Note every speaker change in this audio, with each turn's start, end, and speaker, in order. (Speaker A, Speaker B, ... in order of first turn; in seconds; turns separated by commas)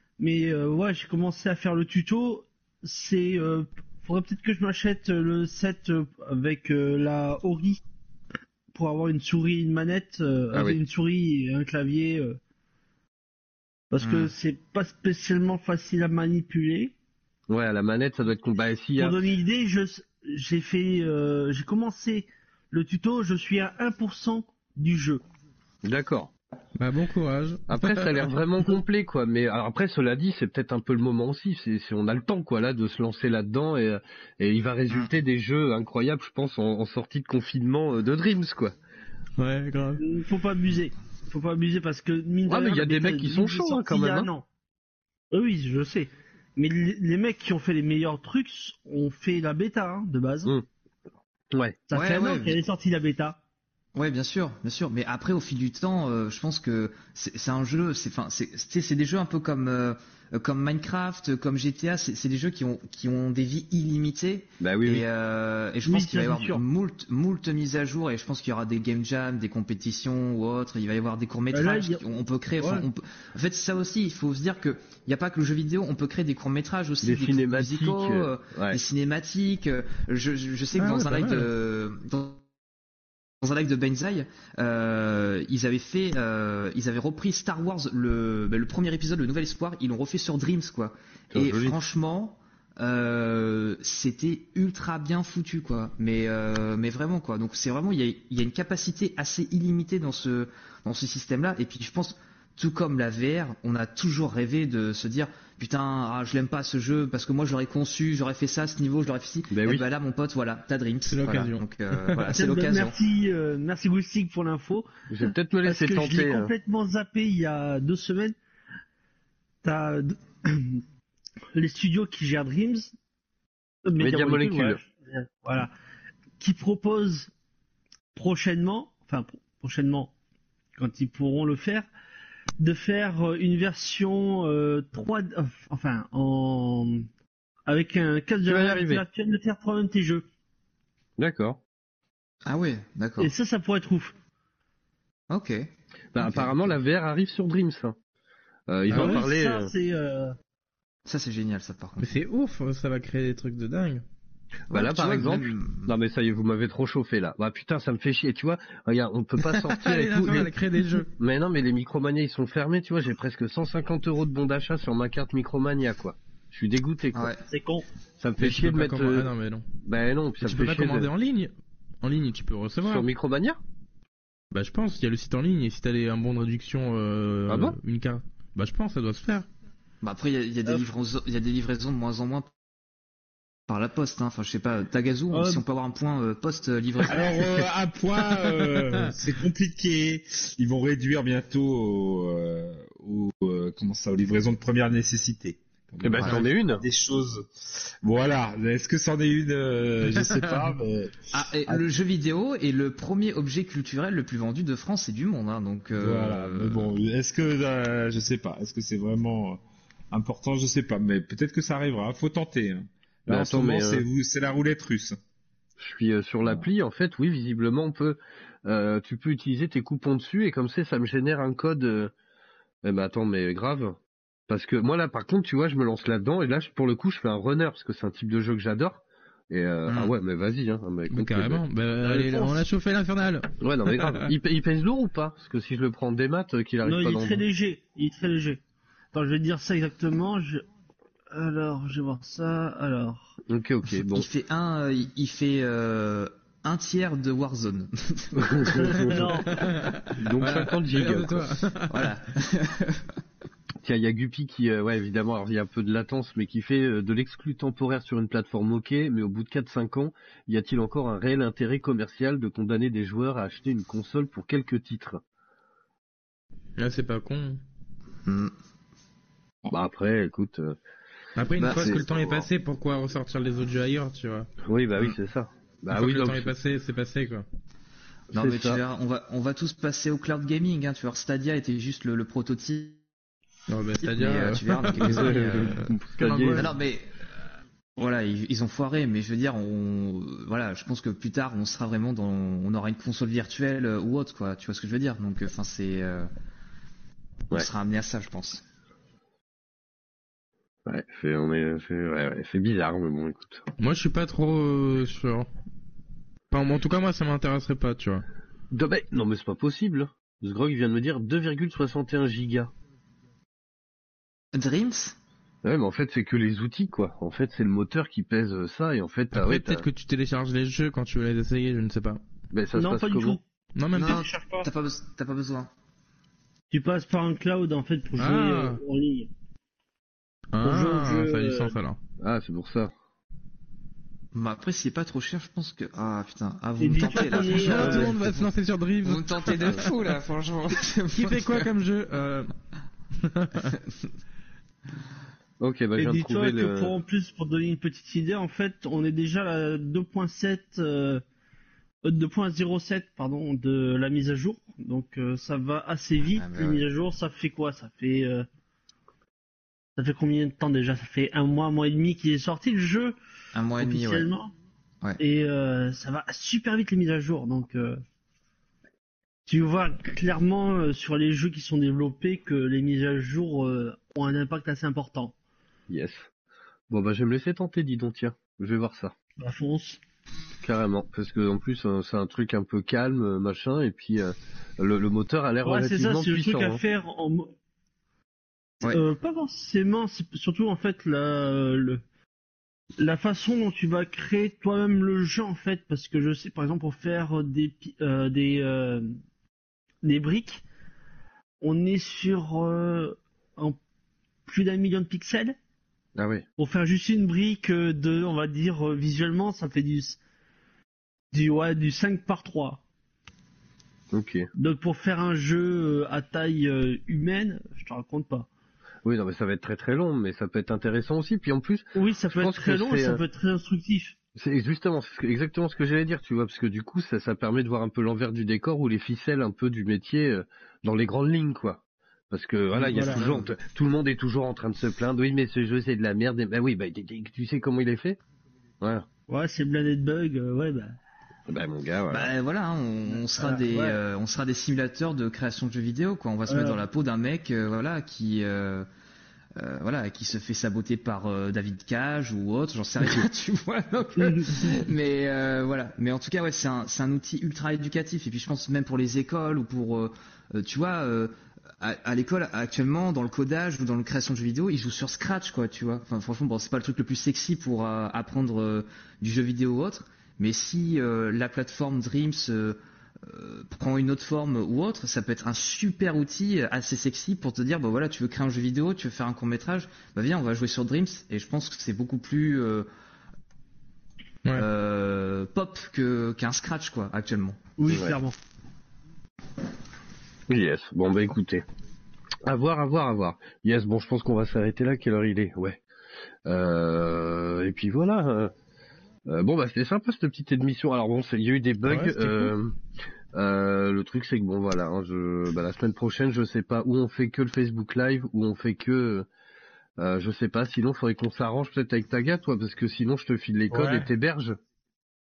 Speaker A: 0.2-7.8, Speaker A: 8.7-12.4, Speaker B: 10.5-10.8, Speaker A: 13.9-16.9, Speaker C: 14.0-14.3, Speaker B: 17.5-19.2, Speaker A: 19.0-25.2, Speaker B: 25.9-26.3, Speaker D: 26.8-28.3, Speaker B: 27.7-38.7, Speaker D: 39.4-40.0, Speaker A: 40.0-44.5, Speaker B: 42.5-44.3, Speaker A: 45.3-50.5, Speaker B: 51.5-51.8, Speaker A: 51.9-53.4, Speaker C: 51.9-52.6, Speaker C: 54.0-82.4, Speaker B: 64.6-65.1, Speaker A: 65.8-66.6, Speaker A: 71.5-72.0, Speaker A: 72.6-72.9, Speaker B: 77.0-78.8, Speaker D: 80.8-81.5, Speaker C: 83.4-113.0, Speaker B: 91.3-91.8, Speaker B: 109.5-109.9, Speaker D: 111.1-112.2, Speaker A: 112.3-114.9, Speaker B: 115.1-116.5, Speaker A: 115.7-118.4, Speaker A: 119.6-120.8, Speaker A: 121.5-122.9, Speaker A: 123.8-125.7, Speaker B: 124.0-124.8, Speaker A: 126.4-127.3, Speaker A: 128.1-130.1, Speaker A: 130.8-131.9, Speaker A: 132.6-137.1, Speaker A: 137.7-140.3, Speaker B: 138.5-139.0, Speaker B: 141.2-141.6, Speaker C: 142.5-143.3, Speaker A: 143.2-144.1, Speaker C: 145.3-145.7, Speaker B: 146.1-147.9, Speaker C: 146.2-146.5, Speaker B: 148.7-149.7, Speaker D: 148.9-149.3, Speaker A: 148.9-150.4, Speaker C: 151.1-152.1, Speaker D: 152.0-154.0, Speaker B: 154.7-160.5, Speaker C: 154.7-155.9, Speaker D: 159.7-161.1, Speaker B: 161.1-167.3, Speaker C: 167.1-167.4, Speaker A: 167.5-167.9, Speaker B: 168.2-169.3, Speaker D: 168.4-169.7, Speaker B: 169.8-171.1, Speaker D: 170.4-173.1, Speaker B: 172.8-173.6, Speaker D: 174.5-179.5, Speaker B: 177.5-177.8, Speaker C: 180.0-182.5, Speaker C: 183.7-187.3, Speaker A: 185.3-185.6, Speaker E: 187.1-201.8, Speaker B: 196.0-196.8, Speaker C: 201.3-206.9, Speaker E: 206.0-215.2, Speaker B: 213.3-214.0, Speaker B: 215.8-222.1, Speaker B: 222.8-224.0, Speaker B: 224.5-231.6, Speaker D: 231.1-234.3, Speaker A: 232.0-232.6, Speaker B: 233.6-237.4, Speaker A: 236.8-238.6, Speaker A: 239.1-240.6, Speaker A: 241.3-243.4, Speaker B: 243.5-244.3, Speaker C: 244.1-249.2, Speaker B: 248.4-249.5, Speaker A: 248.7-249.7, Speaker D: 249.5-252.1, Speaker B: 250.2-251.5, Speaker C: 251.9-253.1, Speaker B: 253.8-265.2, Speaker D: 266.8-267.6, Speaker C: 268.3-268.5, Speaker B: 269.7-270.8, Speaker D: 271.4-274.5, Speaker B: 271.6-272.5, Speaker B: 274.7-276.5, Speaker D: 275.9-277.5, Speaker B: 278.3-278.8, Speaker C: 278.3-283.0, Speaker D: 283.7-286.7, Speaker C: 284.0-285.8, Speaker B: 285.0-286.7, Speaker C: 286.6-287.1, Speaker C: 288.0-296.3, Speaker C: 297.5-298.6, Speaker B: 300.9-303.7, Speaker D: 303.8-305.5, Speaker D: 306.5-308.2, Speaker B: 308.7-312.7, Speaker C: 314.5-315.2, Speaker B: 315.6-319.8, Speaker D: 319.3-322.2, Speaker B: 322.5-323.4, Speaker A: 322.7-323.4, Speaker D: 323.8-324.2, Speaker A: 323.9-324.7, Speaker C: 323.9-325.7, Speaker A: 326.7-329.3, Speaker D: 328.2-328.8, Speaker D: 330.5-332.0, Speaker A: 330.6-331.8, Speaker B: 332.2-332.9, Speaker C: 334.3-341.7, Speaker A: 336.8-338.1, Speaker D: 337.2-339.8, Speaker D: 341.1-342.5, Speaker D: 343.2-343.7, Speaker B: 345.6-346.9, Speaker A: 346.0-351.2, Speaker A: 352.0-358.5, Speaker C: 356.4-356.8, Speaker A: 360.0-363.2, Speaker C: 363.5-364.3, Speaker A: 363.8-364.5, Speaker A: 365.2-368.0, Speaker A: 369.5-375.4, Speaker B: 375.9-376.3, Speaker B: 376.9-379.1, Speaker A: 379.4-380.0, Speaker B: 380.6-386.8, Speaker A: 385.6-387.5, Speaker A: 388.9-392.0, Speaker A: 393.0-399.1, Speaker A: 400.0-400.6, Speaker A: 401.6-403.8, Speaker A: 404.5-405.6, Speaker B: 406.2-406.4, Speaker A: 406.6-410.2, Speaker A: 411.3-412.8, Speaker B: 414.1-414.5, Speaker A: 414.6-418.5, Speaker B: 419.1-423.2, Speaker A: 421.9-424.2, Speaker B: 424.4-438.2, Speaker C: 432.8-433.5, Speaker A: 432.8-433.4, Speaker B: 438.8-439.1, Speaker A: 439.3-441.0, Speaker B: 441.5-442.3, Speaker C: 442.1-448.9, Speaker A: 443.2-444.0, Speaker A: 446.5-446.8, Speaker C: 449.6-482.9, Speaker C: 484.6-487.6, Speaker A: 487.8-488.4, Speaker B: 487.9-488.2, Speaker B: 490.5-491.6, Speaker B: 492.4-495.8, Speaker B: 496.5-498.5, Speaker B: 499.3-502.7, Speaker D: 501.9-502.5, Speaker B: 503.3-509.3, Speaker B: 510.0-514.6, Speaker E: 513.7-514.1